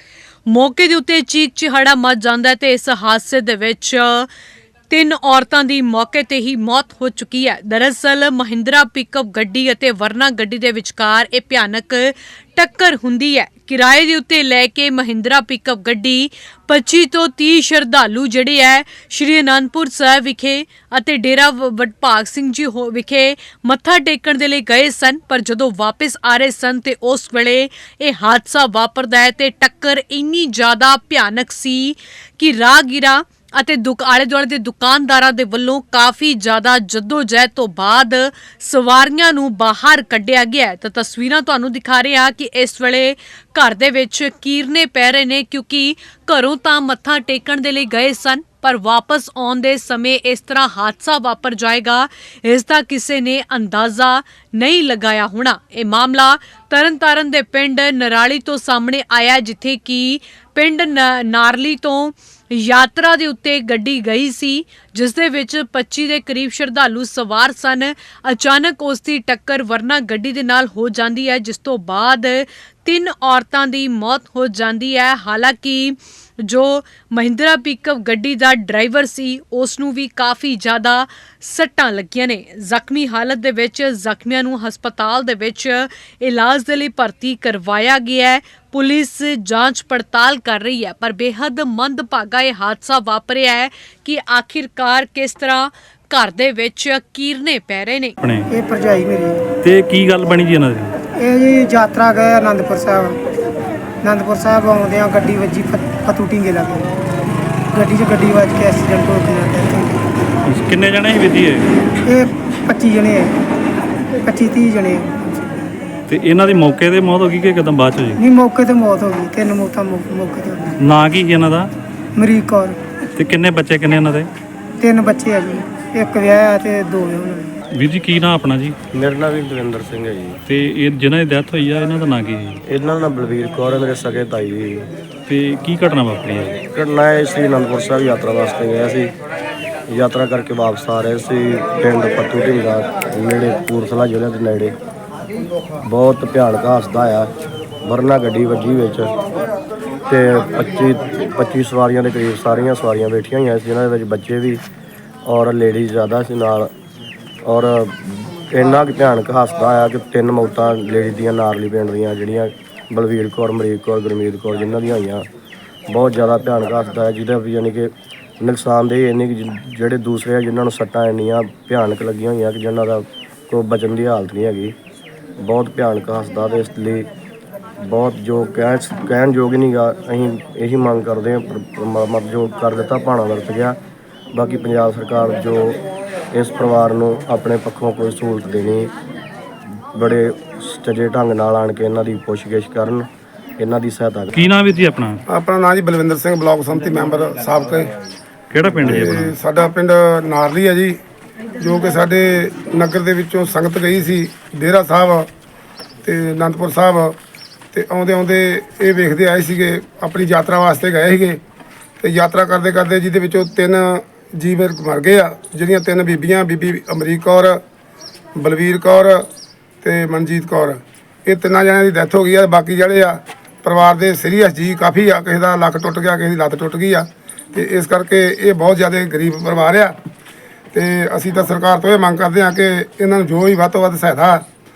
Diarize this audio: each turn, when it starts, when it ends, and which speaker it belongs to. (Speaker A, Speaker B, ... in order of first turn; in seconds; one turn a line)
Speaker A: 0.5-4.3
Speaker A: 4.9-98.2
Speaker B: 98.2-98.5
Speaker C: 98.5-99.4
Speaker B: 99.6-100.9
Speaker C: 101.2-103.2
Speaker C: 104.0-106.8
Speaker C: 107.7-110.0
Speaker B: 110.5-111.7
Speaker C: 112.1-113.3
Speaker C: 114.2-115.1
Speaker B: 116.1-118.2
Speaker C: 118.2-120.7
Speaker B: 120.8-121.7
Speaker C: 122.2-122.8
Speaker B: 123.2-124.3
Speaker C: 124.8-127.5
Speaker B: 127.7-128.8
Speaker D: 128.9-130.4
Speaker B: 130.5-132.6
Speaker D: 132.7-134.9
Speaker B: 135.3-136.6
Speaker D: 136.7-139.2
Speaker D: 139.9-144.8
Speaker D: 145.8-147.3
Speaker D: 147.8-149.1
Speaker D: 150.1-154.6
Speaker D: 155.3-156.7
Speaker D: 157.4-165.3
Speaker D: 165.9-174.8
Speaker D: 175.4-177.1
Speaker D: 177.8-183.8
Speaker D: 184.3-185.8
Speaker D: 186.3-188.9
Speaker D: 189.9-193.1
Speaker D: 193.6-194.3
Speaker B: 194.3-195.2
Speaker E: 195.3-197.9
Speaker B: 198.5-199.3
Speaker E: 198.8-201.0
Speaker E: 201.6-205.3
Speaker E: 206.0-207.2
Speaker E: 207.7-211.4
Speaker E: 212.0-217.6
Speaker E: 218.4-219.3
Speaker E: 219.8-230.0
Speaker E: 230.7-234.5